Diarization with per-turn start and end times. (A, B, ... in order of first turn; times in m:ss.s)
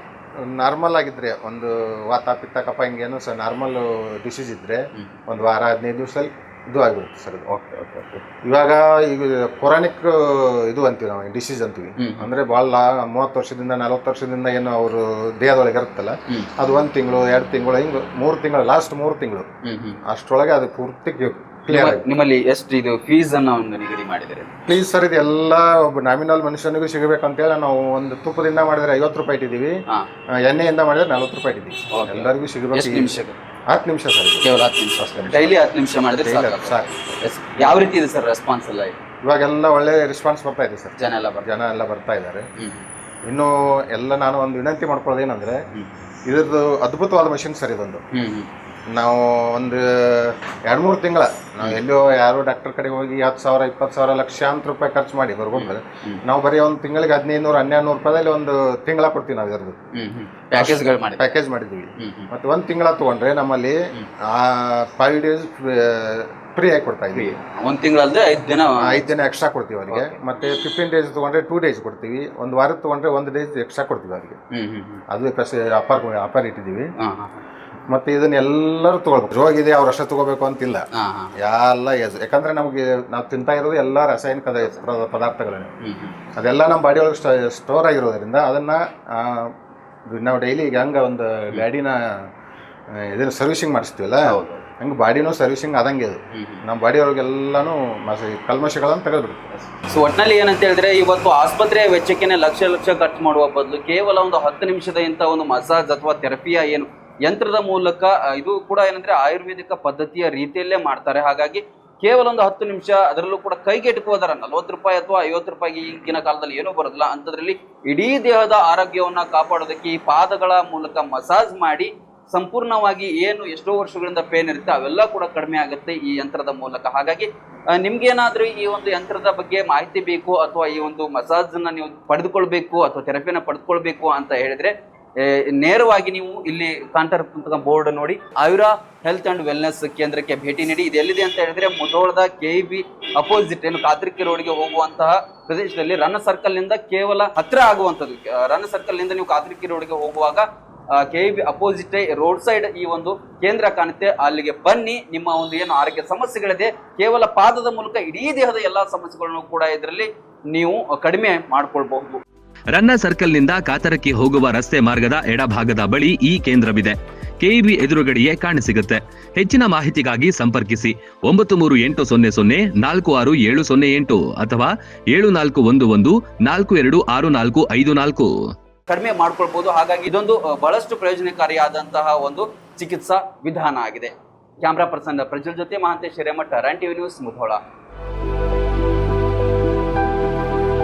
0:00.4-0:19.5 A
0:12.0-0:12.3 B
0:19.6-0:20.0 B
0:20.1-0:22.0 A
0:21.7-0:24.5 B
0:24.7-0:29.7 A
0:30.4-0:33.1 A
0:31.9-0:33.4 B
0:33.7-0:34.5 A
0:34.4-0:39.0 B
0:35.0-0:35.6 A
0:36.2-0:37.9 A
0:39.2-0:42.4 A
0:41.0-0:41.5 B
0:43.3-0:45.6 A
0:46.3-0:48.0 A
0:48.1-0:48.5 B
0:48.9-0:59.8 A
0:55.6-0:56.2 B
1:00.0-1:01.4 B
1:00.6-1:03.8 A
1:02.0-1:02.3 B
1:04.3-1:07.4 A
1:07.1-1:09.0 B
1:08.8-1:14.4 A
1:09.9-1:10.2 B
1:14.5-1:15.0 B
1:15.1-1:16.9 A
1:17.0-1:17.4 B
1:17.9-1:20.9 A
1:21.0-1:21.3 B
1:21.4-1:25.7 A
1:25.8-1:26.2 B
1:26.4-1:29.5 A
1:30.1-1:32.0 A
1:33.0-1:39.5 A
1:34.3-1:34.6 B
1:36.4-1:36.6 B
1:39.9-2:30.4 B
2:31.0-2:42.2 B
2:42.7-2:58.3 C
2:58.9-3:07.6 B